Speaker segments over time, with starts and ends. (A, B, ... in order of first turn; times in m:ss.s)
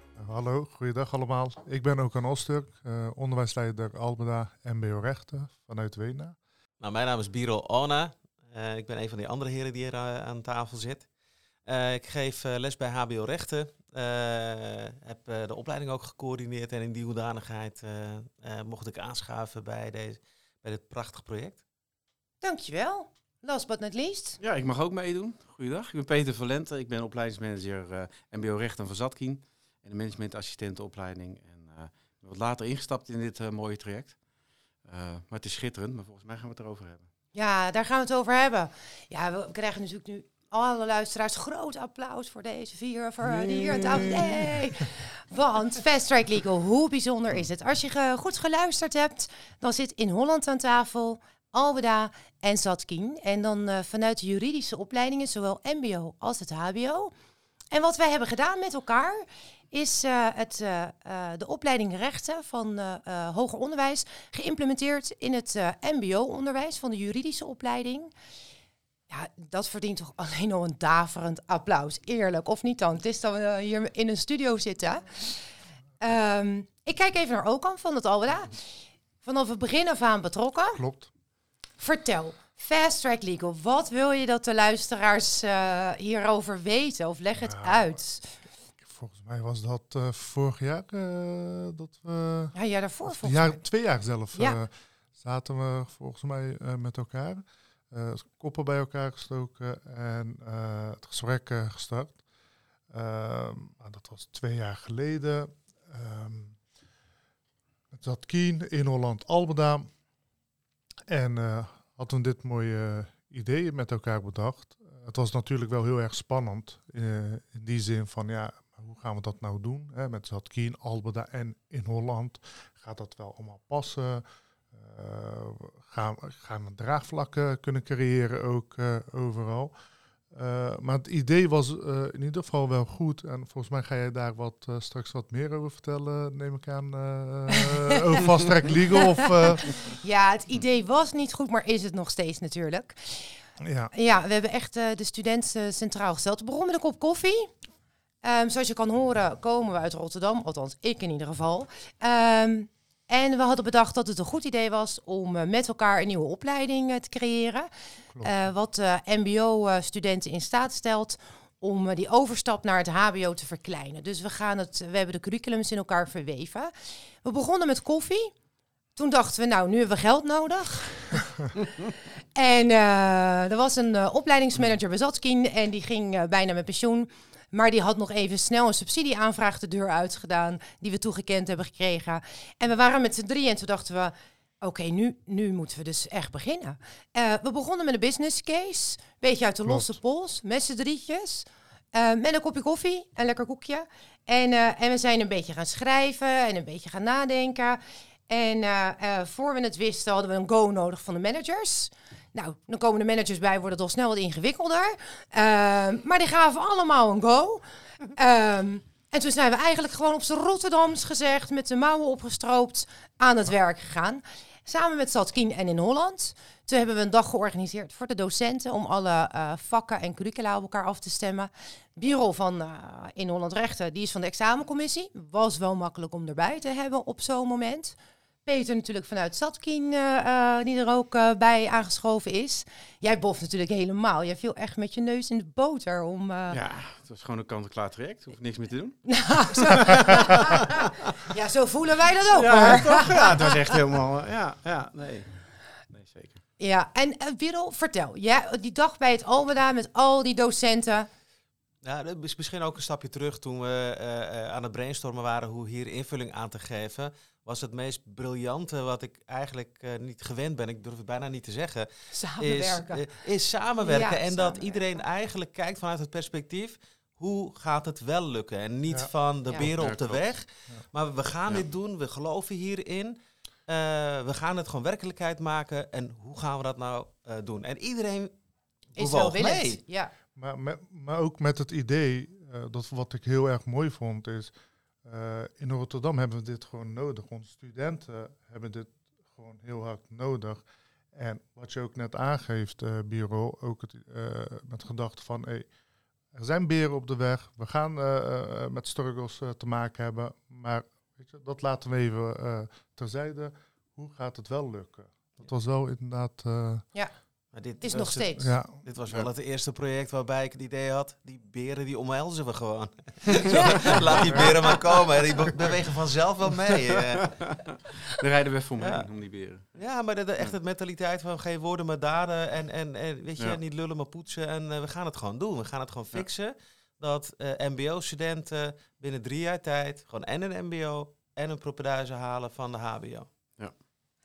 0:00.2-0:06.4 A
0:06.8-0:11.1 B
0:11.7-0:21.6 B
0:22.4-0:24.4 C
0:24.4-0:34.2 D
0:34.8-0:37.1 D
0:37.3-0:57.1 C
0:43.5-0:44.3 D
0:57.7-1:08.1 C
1:09.1-1:15.4 C
1:16.0-1:18.7 C
1:19.2-1:20.8 C
1:20.8-1:21.1 A
1:21.8-1:28.4 C
1:27.4-1:28.0 A
1:28.8-1:32.6 A
1:32.5-1:33.6 C
1:33.1-1:42.2 A
1:42.9-1:46.6 A
1:47.9-1:49.9 A
1:51.1-2:09.7 A
2:10.3-2:19.7 A
2:17.5-2:18.0 C
2:19.0-2:23.4 C
2:23.6-2:23.9 A
2:23.9-2:27.5 C
2:28.2-2:37.7 C
2:38.1-2:38.4 A
2:38.2-2:46.7 C
2:47.2-2:48.3 C
2:49.0-3:27.6 C
3:09.6-3:10.0 A
3:28.1-3:56.6 C
3:56.5-4:00.6 D
3:59.1-4:03.8 C
4:02.3-4:06.4 D
4:06.6-4:11.1 C
4:11.8-4:38.4 B
4:22.1-4:23.2 C
4:23.8-4:24.8 C
4:29.8-4:30.2 D
4:39.0-4:39.8 B
4:39.0-4:40.1 C
4:40.4-4:44.5 A
4:45.0-4:55.7 A
4:56.3-5:06.9 A
5:07.5-5:17.6 B
5:07.8-5:08.5 C
5:08.4-5:08.8 A
5:13.5-5:14.0 D
5:17.4-5:19.6 D
5:18.8-5:19.1 B
5:19.8-5:33.3 B